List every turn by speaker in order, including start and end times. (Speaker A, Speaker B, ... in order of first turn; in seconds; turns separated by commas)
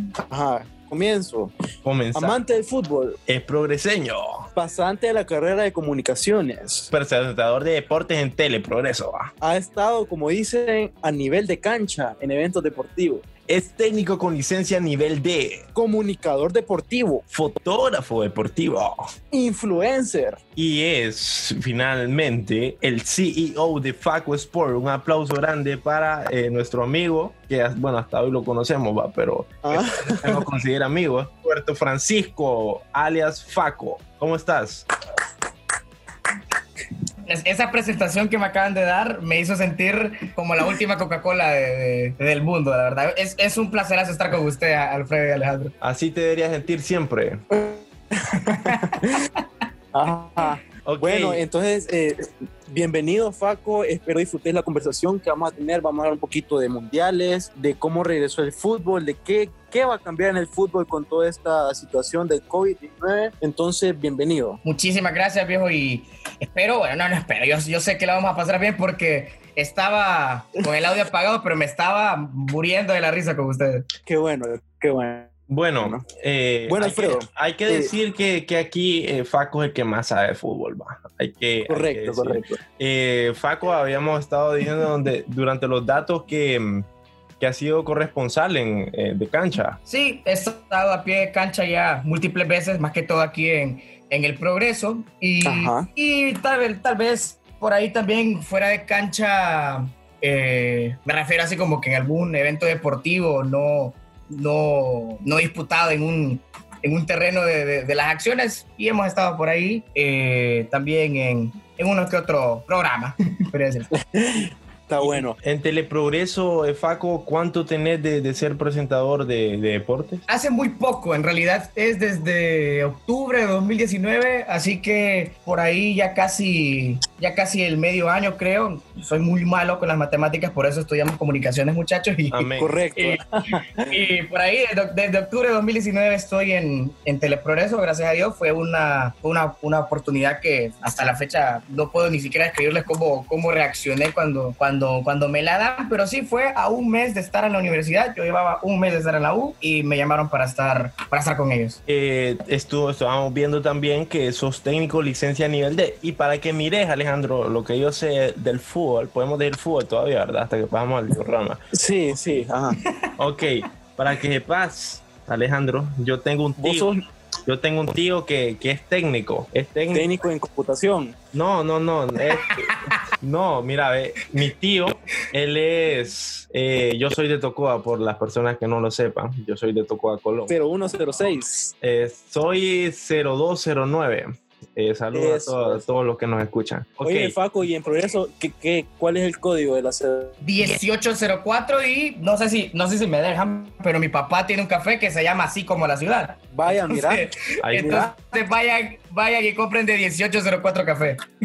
Speaker A: 0.3-1.5, Speaker B: 1.8-2.4, Speaker A: 2.1-3.2, Speaker B: 3.3-4.5, Speaker A: 4.6-6.9, Speaker B: 6.9-9.3, Speaker A: 9.4-13.3, Speaker B: 13.5-15.7, Speaker A: 15.8-17.2, Speaker B: 17.3-19.0, Speaker A: 19.3-20.4, Speaker B: 20.6-34.9, Speaker A: 29.6-30.4, Speaker C: 37.3-45.7, Speaker B: 45.8-47.4, Speaker A: 47.5-49.3, Speaker C: 48.5-49.1, Speaker A: 49.9-64.6, Speaker B: 50.8-51.5, Speaker C: 64.6-73.9, Speaker A: 74.1-76.0, Speaker B: 75.5-86.9, Speaker A: 76.7-77.9, Speaker A: 81.7-82.6, Speaker B: 87.4-89.8, Speaker C: 89.9-113.9, Speaker A: 95.5-95.9, Speaker A: 114.1-115.4, Speaker B: 115.0-120.2, Speaker C: 120.3-133.2, Speaker B: 132.3-132.7, Speaker A: 132.6-134.0, Speaker C: 133.9-151.8, Speaker B: 151.9-161.6, Speaker A: 161.7-162.8, Speaker C: 162.8-163.2, Speaker B: 163.2-166.9, Speaker A: 166.6-167.0, Speaker B: 167.5-170.1, Speaker A: 169.9-171.2, Speaker B: 171.3-180.6, Speaker C: 172.4-173.0, Speaker A: 180.5-181.7, Speaker B: 181.8-187.4, Speaker A: 185.1-185.8, Speaker A: 187.0-190.4, Speaker C: 190.4-201.2, Speaker A: 196.5-198.1, Speaker B: 197.6-198.1